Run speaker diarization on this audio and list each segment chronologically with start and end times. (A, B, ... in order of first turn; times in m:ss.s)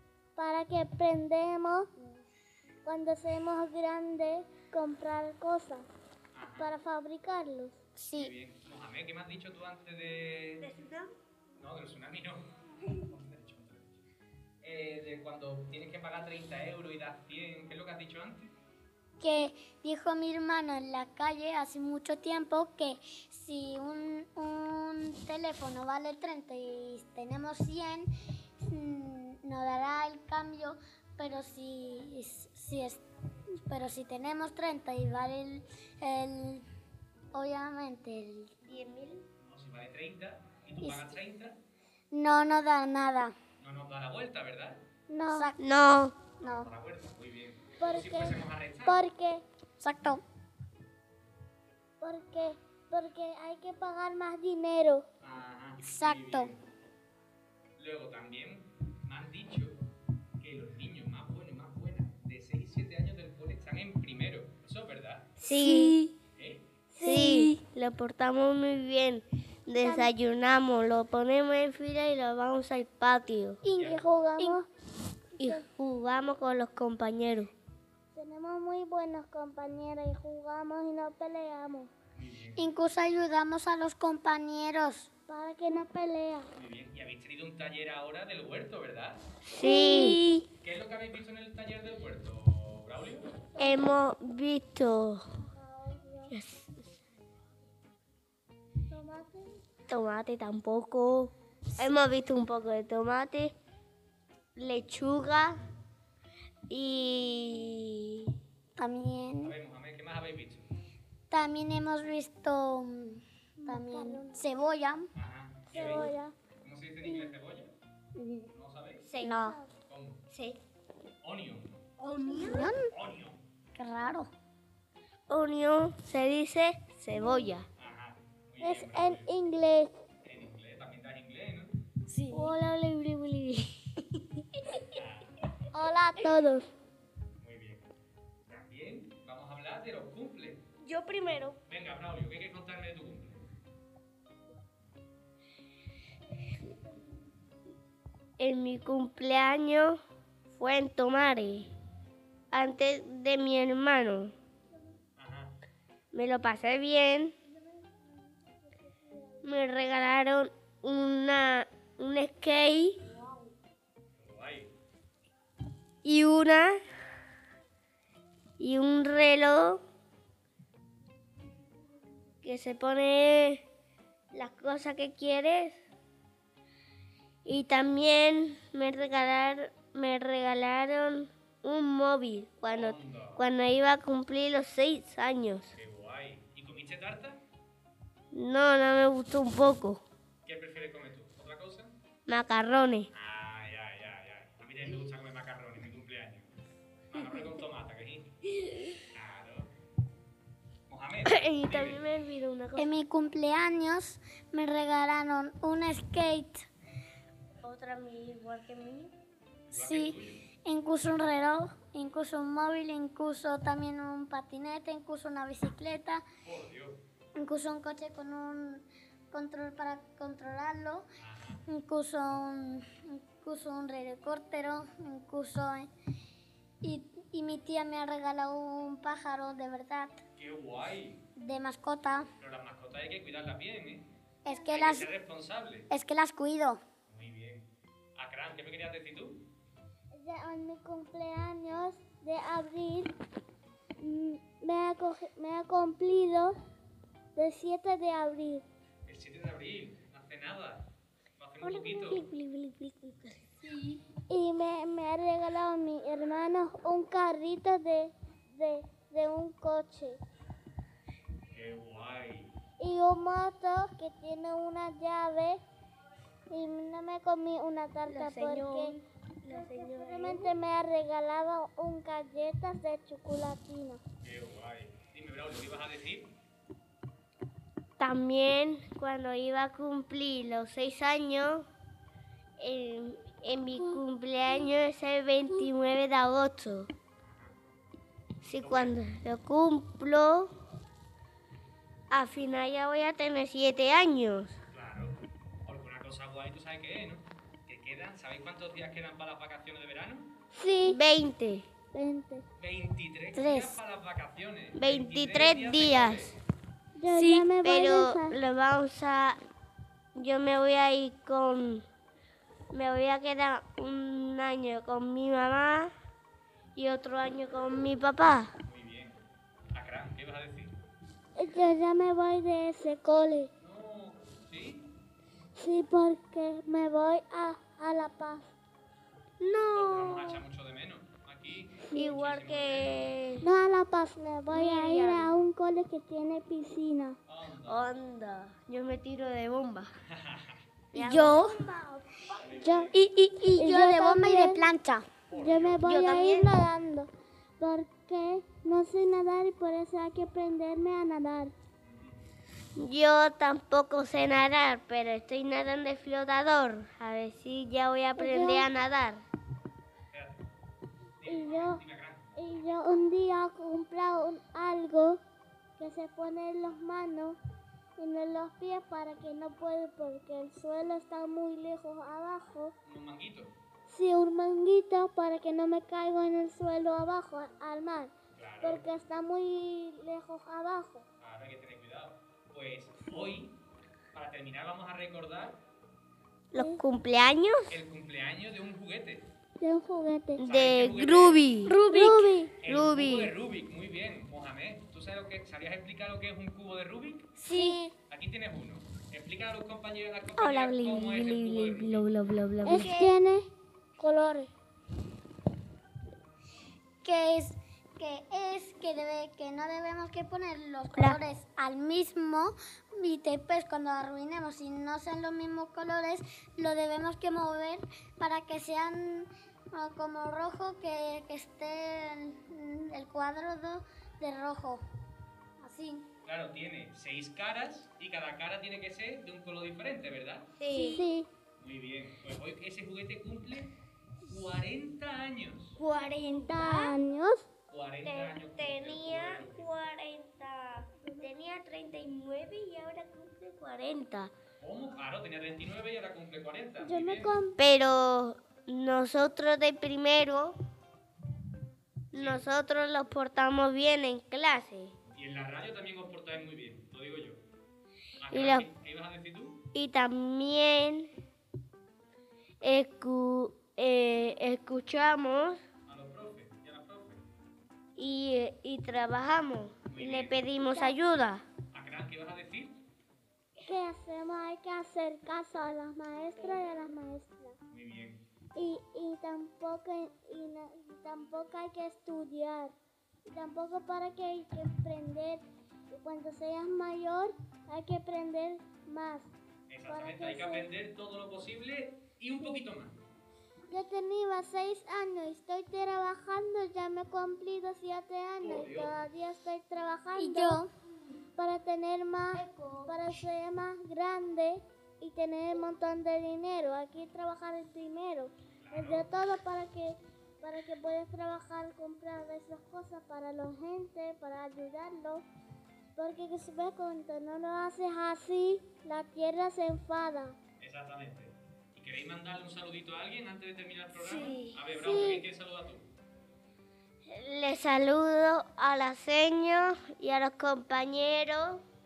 0:00.4-0:01.9 A
0:02.8-0:05.9 A
0:06.3-0:06.7 B
0:06.6-0:07.8 A
0:08.0-0:08.3 C
0:08.2-0:10.7 B
0:10.6-0:11.1 D
0:11.6-0:13.9 B
0:14.6-0:18.5 B
0:19.2-0:33.0 C
0:33.6-0:36.6 C
0:37.3-0:38.5 C
0:38.6-0:39.2 D
0:39.4-0:41.6 B
0:42.1-0:43.3 C
0:43.6-0:44.8 B
0:45.1-0:45.5 A
0:45.3-0:45.7 C
0:45.6-0:46.3 D
0:46.3-0:49.0 B
0:46.4-0:46.7 C
0:47.8-0:49.4 A
0:49.8-0:50.2 C
0:52.0-0:55.1 A
0:55.2-0:56.6 B
0:55.8-0:56.5 C
0:57.8-0:59.8 B
1:00.4-1:05.4 B
1:05.4-1:06.0 D
1:06.4-1:06.7 B
1:06.9-1:07.5 A
1:07.0-1:13.6 D
1:09.8-1:10.1 A
1:13.6-1:14.7 A
1:13.7-1:14.1 B
1:15.4-1:15.6 A
1:15.4-1:17.5 D
1:18.1-1:21.9 A
1:22.1-1:22.7 B
1:22.6-1:25.1 C
1:25.3-1:26.5 A
1:26.6-1:29.3 B
1:29.4-1:30.4 D
1:29.6-1:30.2 C
1:30.6-1:33.5 B
1:33.6-1:34.0 A
1:33.6-1:35.2 D
1:35.4-1:36.4 A
1:36.3-1:36.8 D
1:38.9-1:39.6 A
1:39.9-1:43.5 D
1:44.6-1:45.7 D
1:46.7-1:48.3 D
1:48.8-1:49.6 C
1:49.4-1:50.7 B
1:51.3-1:55.1 C
1:53.6-1:54.4 A
1:55.1-1:56.1 B
1:55.7-1:56.4 A
1:56.6-1:57.7 B
1:58.2-1:58.5 C
1:58.5-1:59.1 B
1:59.0-1:59.4 D
1:59.2-1:59.6 C
1:59.2-1:59.7 A
1:59.9-2:00.2 B
2:00.3-2:00.6 D
2:01.2-2:01.8 B
2:02.2-2:02.9 C
2:02.3-2:02.7 A
2:02.9-2:03.4 B
2:03.8-2:04.3 C
2:05.3-2:07.7 D
2:07.2-2:07.5 A
2:07.8-2:09.3 B
2:08.6-2:09.9 A
2:10.2-2:11.8 B
2:12.1-2:12.6 C
2:12.3-2:13.8 D
2:14.9-2:15.3 B
2:15.7-2:16.7 A
2:17.4-2:17.9 B
2:18.5-2:20.6 B
2:20.8-2:21.6 D
2:21.7-2:23.5 B
2:28.4-2:30.0 D
2:30.5-2:31.7 D
2:32.5-2:34.3 D
2:35.2-2:35.6 B
2:36.1-2:37.4 D
2:37.5-2:39.5 A
2:39.4-2:43.0 D
2:43.1-2:43.5 A
2:44.2-2:44.7 B
2:46.0-2:46.8 D
2:48.6-2:49.8 D
2:52.4-2:53.6 D
2:54.3-2:55.8 D
2:57.4-3:05.7 D
3:02.7-3:03.4 B
3:05.7-3:07.4 B
3:08.3-3:10.0 D
3:10.4-3:12.0 B
3:12.3-3:13.1 D
3:13.1-3:16.5 B
3:17.1-3:18.3 B
3:19.1-3:19.7 B
3:20.9-3:22.1 B
3:21.2-3:22.9 D
3:22.8-3:26.7 C
3:27.6-3:29.1 D
3:29.7-3:30.5 B
3:29.7-3:36.2 C
3:36.4-3:37.0 B
3:37.4-3:41.0 C
3:41.2-3:41.6 B
3:41.7-3:45.9 C
3:46.8-3:50.2 C
3:50.4-3:51.2 B
3:51.4-3:52.3 C
3:52.4-3:54.1 B
3:54.4-3:55.1 C
3:54.7-3:55.9 B
3:55.9-3:56.8 C
3:57.1-3:59.4 B
4:00.1-4:03.1 A
4:04.0-4:06.6 A
4:07.4-4:08.6 A
4:09.1-4:12.3 B
4:11.6-4:14.0 D
4:14.3-4:20.2 A
4:21.5-4:22.6 B
4:22.8-4:25.6 A
4:26.5-4:34.0 A
4:28.1-4:30.5 D
4:34.2-4:36.3 B
4:38.0-4:41.7 D
4:42.6-4:46.9 D
4:47.2-4:47.6 B
4:48.4-4:50.5 D
4:48.6-4:49.0 B
4:52.1-4:54.6 D
4:54.7-5:00.3 B
5:00.6-5:01.0 A
5:00.8-5:01.7 D
5:01.9-5:02.4 A
5:02.6-5:06.4 B
5:03.3-5:03.8 C
5:04.8-5:06.4 D
5:07.0-5:08.4 A
5:07.1-5:09.4 D
5:10.1-5:11.8 D
5:12.7-5:15.9 D
5:16.8-5:18.5 D
5:18.6-5:19.2 B
5:19.7-5:20.8 B
5:21.4-5:23.5 A
5:23.6-5:24.9 B
5:25.5-5:28.5 A
5:29.4-5:30.4 D
5:29.7-5:33.1 B
5:31.9-5:33.5 D
5:33.4-5:37.2 A
5:34.5-5:35.3 D
5:37.3-5:38.0 B
5:37.7-5:39.9 D
5:40.1-5:40.6 B
5:40.9-5:42.3 D
5:40.9-5:41.6 C
5:42.4-5:42.9 B
5:42.6-5:42.9 A
5:42.9-5:45.1 C
5:43.6-5:44.7 A
5:45.3-5:45.9 B
5:45.4-5:51.5 A
5:45.8-5:46.6 D
5:51.8-5:52.3 B
5:52.8-5:59.2 D
5:58.2-5:58.7 A
6:00.1-6:00.5 B
6:01.2-6:02.6 B
6:01.2-6:01.8 A
6:02.4-6:05.2 A
6:05.8-6:07.4 A
6:08.0-6:12.7 A
6:12.8-6:13.5 B
6:13.9-6:21.0 A
6:18.4-6:18.9 B
6:21.2-6:23.6 B
6:24.1-6:25.6 B
6:26.5-6:27.8 D
6:26.5-6:26.8 A
6:27.7-6:29.3 B
6:29.6-6:30.4 A
6:30.4-6:31.8 D
6:30.4-6:31.5 B
6:31.7-6:32.4 C
6:31.9-6:32.5 A
6:32.6-6:37.4 B
6:32.7-6:33.3 D
6:37.4-6:37.9 C
6:37.5-6:37.9 A
6:38.1-6:42.1 B
6:40.4-6:43.0 D
6:42.6-6:44.5 A
6:42.7-6:43.2 C
6:47.0-7:04.8 C
7:05.6-7:06.0 C
7:06.2-7:10.5 B
7:10.6-7:11.0 D
7:10.7-7:11.3 A
7:11.6-7:13.7 B
7:14.2-7:15.8 B
7:15.8-7:17.0 D
7:16.4-7:17.5 A
7:17.7-7:19.7 B
7:18.0-7:24.3 D
7:21.0-7:21.3 A
7:24.6-7:27.4 B
7:26.8-7:27.6 A
7:27.5-7:30.6 D
7:32.1-7:34.9 D
7:32.1-7:32.6 B
7:35.1-7:37.4 B
7:38.2-7:39.6 B
7:38.3-7:38.7 D
7:39.7-7:41.1 D
7:42.6-7:45.6 D
7:45.9-7:47.3 B
7:48.0-7:51.5 D
7:49.8-7:50.4 B
7:50.6-7:51.0 A
7:51.7-7:52.8 B
7:53.6-7:57.6 A
7:57.7-7:58.2 B
7:58.5-8:09.3 A
8:09.7-8:13.0 B
8:09.9-8:10.7 A
8:13.7-8:20.6 A
8:18.4-8:18.9 B
8:20.2-8:20.7 C
8:21.4-8:35.2 A
8:28.6-8:29.1 B
8:36.0-8:40.4 A
8:40.6-8:45.9 B
8:44.0-8:44.6 D
8:44.7-8:45.2 A
8:47.0-8:51.6 D